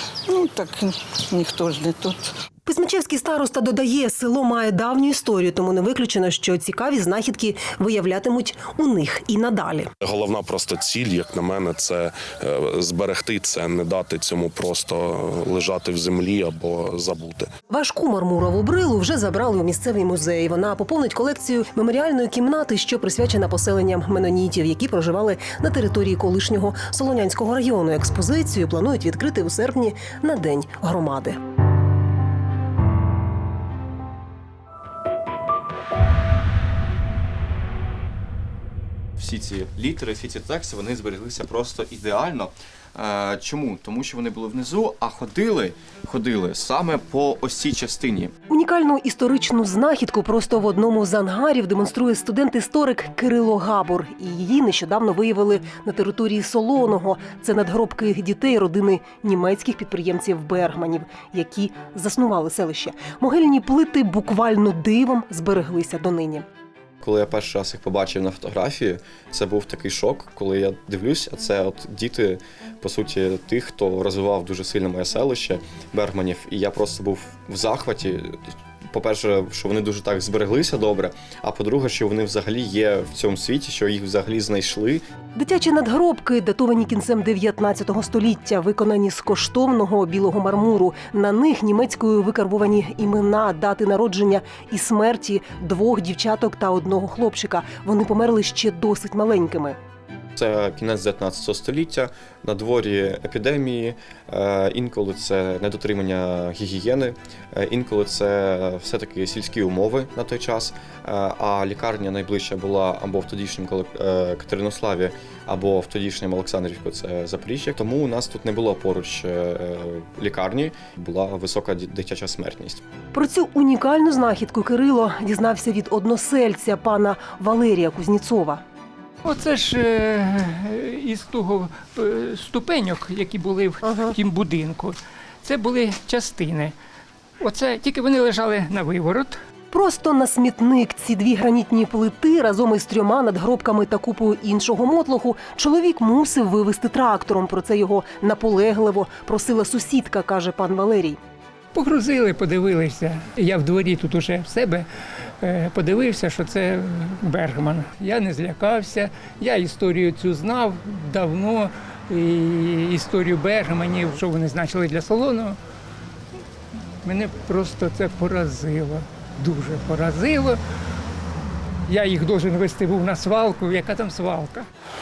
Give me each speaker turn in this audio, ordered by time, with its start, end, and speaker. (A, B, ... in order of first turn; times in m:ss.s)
0:00.3-0:02.4 A
0:02.7-0:09.9 B
0:10.0-0:17.5 C
0:17.7-0:31.4 B
0:39.2-0:48.3 D
0:44.0-0:44.4 E
0:48.5-1:06.5 B
1:07.0-1:18.4 E
1:18.9-1:25.0 E
1:25.4-1:39.8 B
1:40.4-2:02.8 E
2:03.1-2:08.6 B
2:09.2-2:16.8 F
2:13.8-2:14.2 B
2:17.4-2:19.4 F
2:19.7-2:31.2 B
2:31.7-2:34.9 F
2:35.4-2:45.6 F
2:47.0-2:50.6 F
2:51.9-2:54.7 F